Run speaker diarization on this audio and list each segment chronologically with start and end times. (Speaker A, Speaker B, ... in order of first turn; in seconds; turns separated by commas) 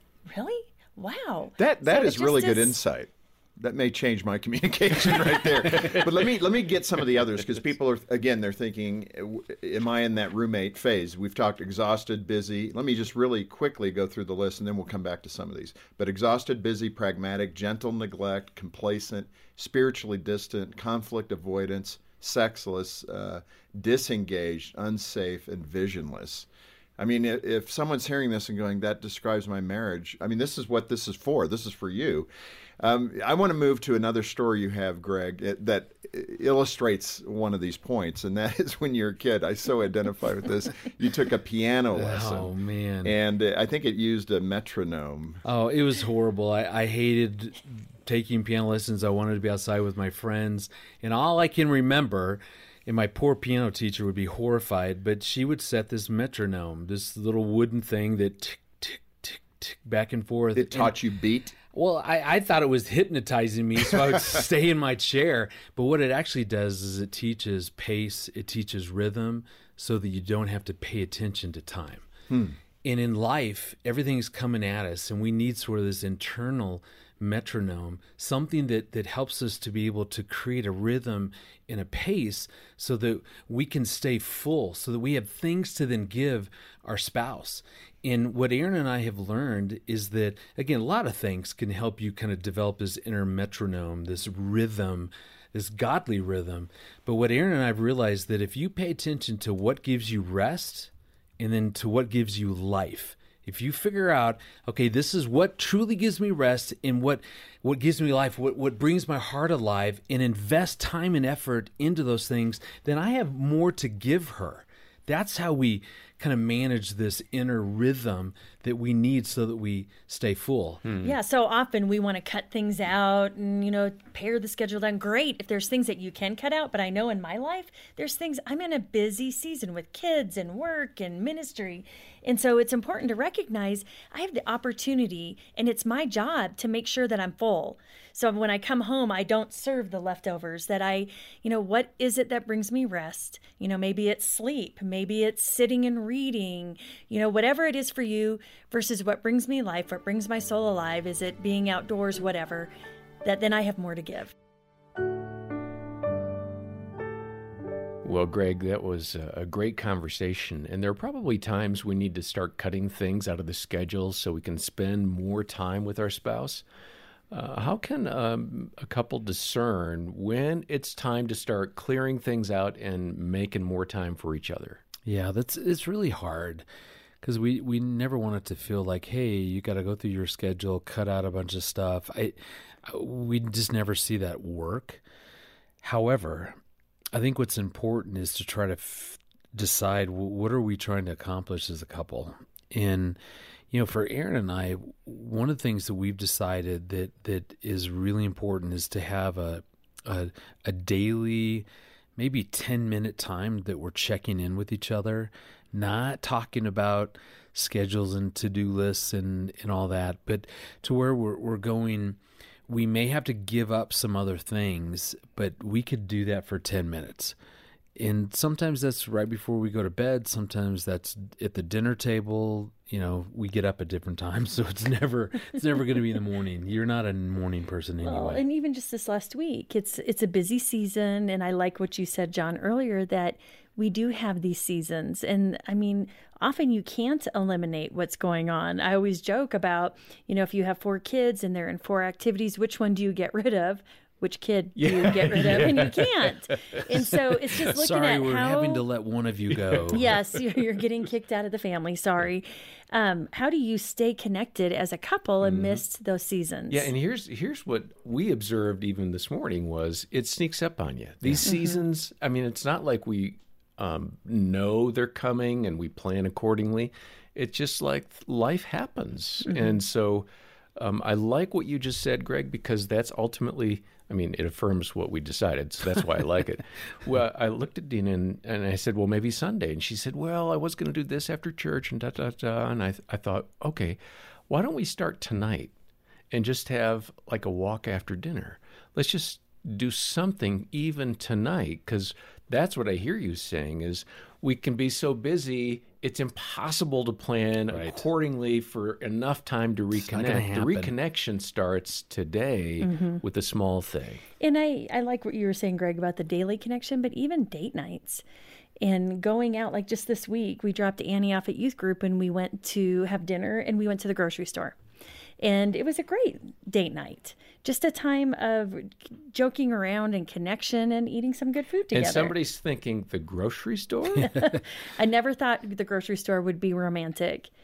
Speaker A: 0.3-2.8, Speaker B: 1.6-26.5, Speaker B: 27.0-32.3, Speaker B: 32.8-42.5, Speaker C: 41.9-43.1, Speaker B: 43.0-45.4, Speaker C: 45.4-61.0, Speaker B: 60.5-61.5, Speaker C: 61.7-72.0, Speaker B: 72.3-72.5, Speaker C: 72.8-120.8, Speaker D: 120.8-121.1, Speaker A: 121.0-152.7, Speaker A: 153.2-154.3, Speaker D: 158.0-166.6, Speaker D: 167.3-174.8, Speaker C: 175.0-176.7, Speaker C: 177.2-185.0, Speaker C: 185.8-186.6, Speaker C: 187.1-193.2, Speaker C: 193.7-217.3, Speaker C: 217.9-228.4, Speaker A: 228.0-248.8, Speaker D: 244.8-246.8, Speaker C: 247.7-250.2, Speaker A: 249.9-256.9, Speaker D: 255.4-255.8, Speaker D: 256.7-285.7, Speaker A: 261.4-261.8, Speaker D: 286.3-304.2, Speaker C: 297.7-298.0, Speaker C: 299.9-300.9, Speaker A: 302.8-303.2, Speaker A: 304.4-308.2, Speaker A: 308.8-314.8, Speaker A: 315.4-322.3, Speaker D: 321.9-324.3, Speaker A: 324.2-327.5